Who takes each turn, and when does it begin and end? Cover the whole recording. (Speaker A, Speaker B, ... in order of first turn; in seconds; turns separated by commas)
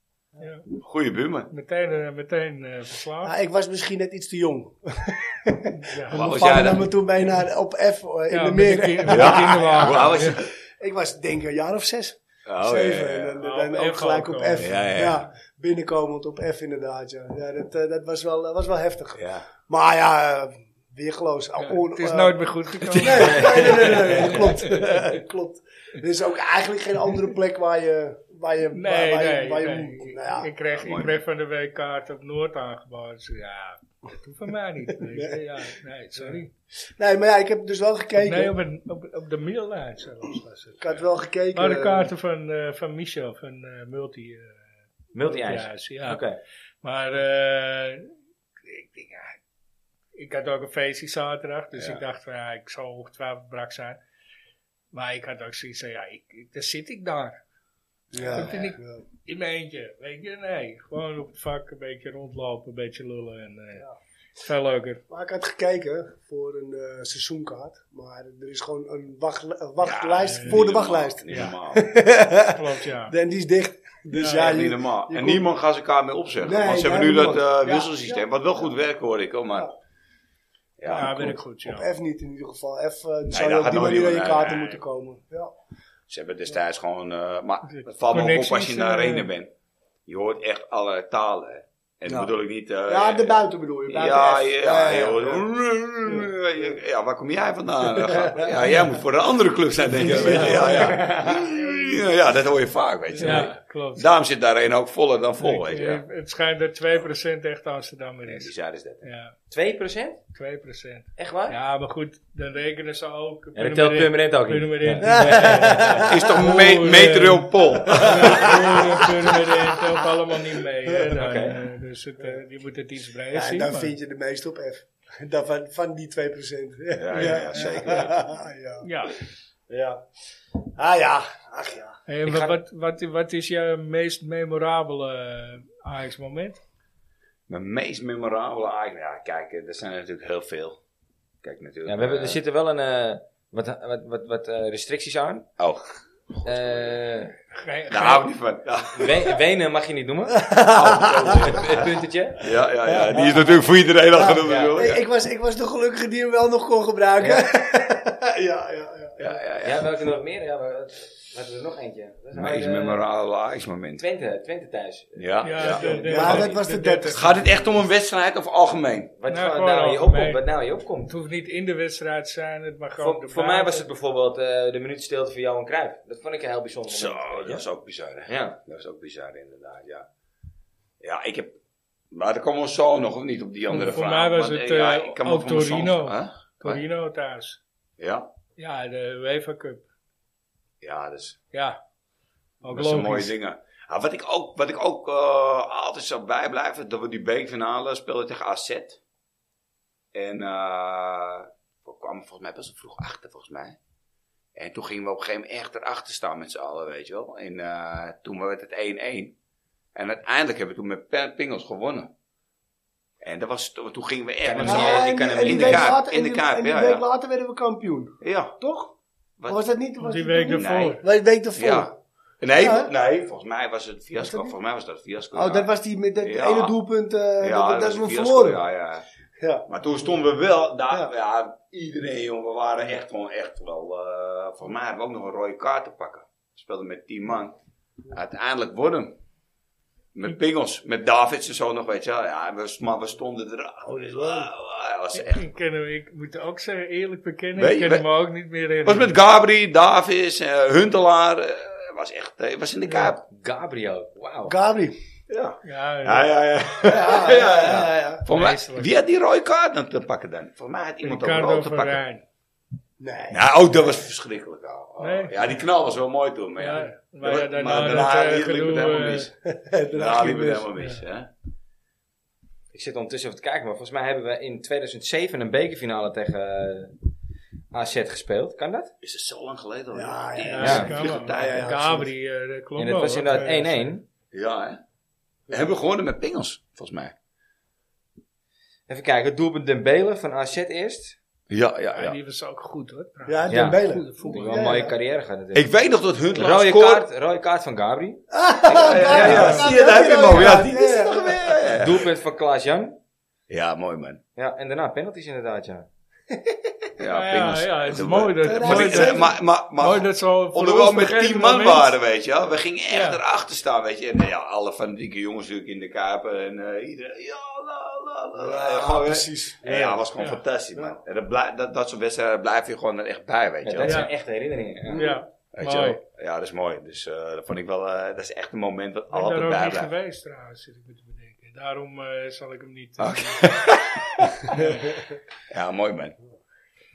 Speaker A: 0.4-0.6, Speaker B: 0.7-1.5, Speaker A: 1.5-3.3, Speaker C: 3.2-30.5, Speaker A: 5.8-6.2, Speaker B: 6.1-6.9, Speaker A: 8.3-10.4, Speaker B: 9.1-10.4, Speaker B: 12.4-13.4, Speaker A: 13.4-14.8, Speaker B: 14.6-15.3, Speaker B: 19.1-19.5, Speaker A: 21.6-25.1, Speaker A: 28.7-36.5, Speaker B: 30.7-31.2, Speaker C: 35.1-35.4, Speaker C: 36.1-36.4, Speaker C: 37.0-38.5, Speaker A: 38.2-41.0, Speaker C: 40.8-42.1, Speaker A: 41.5-44.5, Speaker D: 45.1-46.4, Speaker A: 45.2-46.2, Speaker A: 46.8-48.1, Speaker A: 48.6-49.4, Speaker A: 50.1-54.0, Speaker B: 51.7-52.0, Speaker A: 54.9-57.4, Speaker C: 58.1-59.0, Speaker B: 58.1-58.5, Speaker A: 58.3-63.8, Speaker A: 64.4-65.0, Speaker C: 65.1-75.4, Speaker B: 69.8-71.9, Speaker A: 70.2-70.6, Speaker A: 71.3-71.5, Speaker A: 72.5-73.1, Speaker A: 74.1-74.6, Speaker B: 74.3-79.7, Speaker C: 76.4-78.2, Speaker B: 80.8-81.4, Speaker C: 80.8-85.5, Speaker A: 80.9-81.9, Speaker B: 83.3-84.8, Speaker B: 86.1-89.5, Speaker A: 87.7-89.3, Speaker B: 90.0-106.0, Speaker C: 92.1-92.3, Speaker C: 92.9-95.5, Speaker C: 96.0-96.7, Speaker C: 97.9-98.5, Speaker C: 100.0-101.7, Speaker A: 100.1-101.1, Speaker C: 103.2-103.4, Speaker A: 103.2-104.1, Speaker A: 105.4-108.5, Speaker B: 108.2-109.1, Speaker A: 109.0-109.3, Speaker D: 109.5-110.2, Speaker A: 110.3-123.9, Speaker D: 111.2-111.6, Speaker D: 113.5-116.1, Speaker C: 115.0-116.3, Speaker B: 116.0-119.0, Speaker C: 117.8-120.1, Speaker D: 121.1-121.6, Speaker C: 123.3-129.1, Speaker B: 127.0-128.3, Speaker A: 127.2-127.4, Speaker A: 128.8-129.2, Speaker C: 129.7-130.0, Speaker C: 130.7-132.0, Speaker A: 132.1-136.6, Speaker D: 132.2-132.6, Speaker B: 137.5-140.8, Speaker B: 141.4-142.4, Speaker D: 141.8-145.5, Speaker B: 145.6-146.6, Speaker D: 146.4-147.3, Speaker A: 147.5-148.3, Speaker B: 147.9-149.4, Speaker D: 148.9-150.4, Speaker C: 150.3-151.5, Speaker B: 150.7-155.0, Speaker D: 151.2-152.5, Speaker C: 153.1-153.4, Speaker C: 154.1-159.3, Speaker D: 154.4-154.8, Speaker D: 157.2-157.5, Speaker B: 159.2-159.9, Speaker D: 159.6-163.0, Speaker B: 162.3-164.0, Speaker D: 164.0-166.6, Speaker B: 165.2-166.4, Speaker A: 165.4-167.3, Speaker C: 165.8-167.5, Speaker B: 167.1-169.1, Speaker D: 169.2-171.1, Speaker A: 169.3-170.4, Speaker A: 171.1-173.8, Speaker D: 173.0-177.7, Speaker B: 176.9-180.1, Speaker D: 178.3-178.6, Speaker B: 181.0-181.6, Speaker B: 182.1-186.8, Speaker A: 183.7-187.6, Speaker B: 188.0-188.3, Speaker A: 188.6-189.8, Speaker B: 190.8-191.4, Speaker A: 191.5-191.8, Speaker A: 192.6-193.3, Speaker B: 192.6-199.0, Speaker B: 200.1-203.8, Speaker B: 204.5-209.3, Speaker B: 209.9-212.1, Speaker B: 213.2-217.0, Speaker D: 214.4-215.9, Speaker C: 214.6-218.9, Speaker B: 218.2-218.6, Speaker C: 219.5-221.9, Speaker A: 220.0-221.0, Speaker B: 220.5-221.0, Speaker B: 221.5-226.8, Speaker C: 222.6-222.9, Speaker C: 224.2-224.5, Speaker C: 225.3-228.6, Speaker B: 227.4-229.0, Speaker C: 229.4-229.7, Speaker B: 229.7-237.6, Speaker B: 238.1-239.2, Speaker B: 240.1-245.5, Speaker C: 243.8-244.5, Speaker A: 245.1-249.1, Speaker B: 247.6-248.0, Speaker B: 248.8-253.2, Speaker D: 253.2-254.5, Speaker C: 254.5-254.9, Speaker B: 255.3-262.0, Speaker A: 255.6-256.3, Speaker C: 256.8-258.2, Speaker A: 258.3-258.9, Speaker A: 261.0-262.2, Speaker C: 263.0-263.5, Speaker B: 263.3-269.3, Speaker A: 265.0-265.4, Speaker A: 266.6-269.3, Speaker C: 269.4-270.7, Speaker B: 269.9-271.3, Speaker D: 272.7-276.9, Speaker D: 277.7-278.9, Speaker B: 279.0-281.8, Speaker C: 279.9-282.1, Speaker A: 280.4-283.9, Speaker D: 280.6-280.9, Speaker D: 282.8-284.0, Speaker B: 284.3-284.8, Speaker B: 285.5-287.1, Speaker D: 288.9-291.2, Speaker B: 291.5-292.2, Speaker A: 291.9-294.7, Speaker C: 293.3-294.9, Speaker D: 293.5-295.7, Speaker B: 295.5-297.0, Speaker D: 296.3-299.7, Speaker C: 298.3-301.6, Speaker B: 298.7-302.1, Speaker A: 299.1-299.7, Speaker D: 301.8-303.0, Speaker B: 303.5-304.2, Speaker D: 304.4-305.9, Speaker B: 307.0-324.1, Speaker A: 307.0-311.9, Speaker C: 308.4-309.3, Speaker A: 312.9-313.2, Speaker C: 318.4-320.1, Speaker D: 323.6-325.2, Speaker A: 323.8-324.1, Speaker C: 324.9-325.2, Speaker A: 324.9-326.0, Speaker B: 325.5-329.9, Speaker A: 329.1-333.5, Speaker B: 333.0-334.4, Speaker A: 334.5-334.9, Speaker B: 335.5-336.1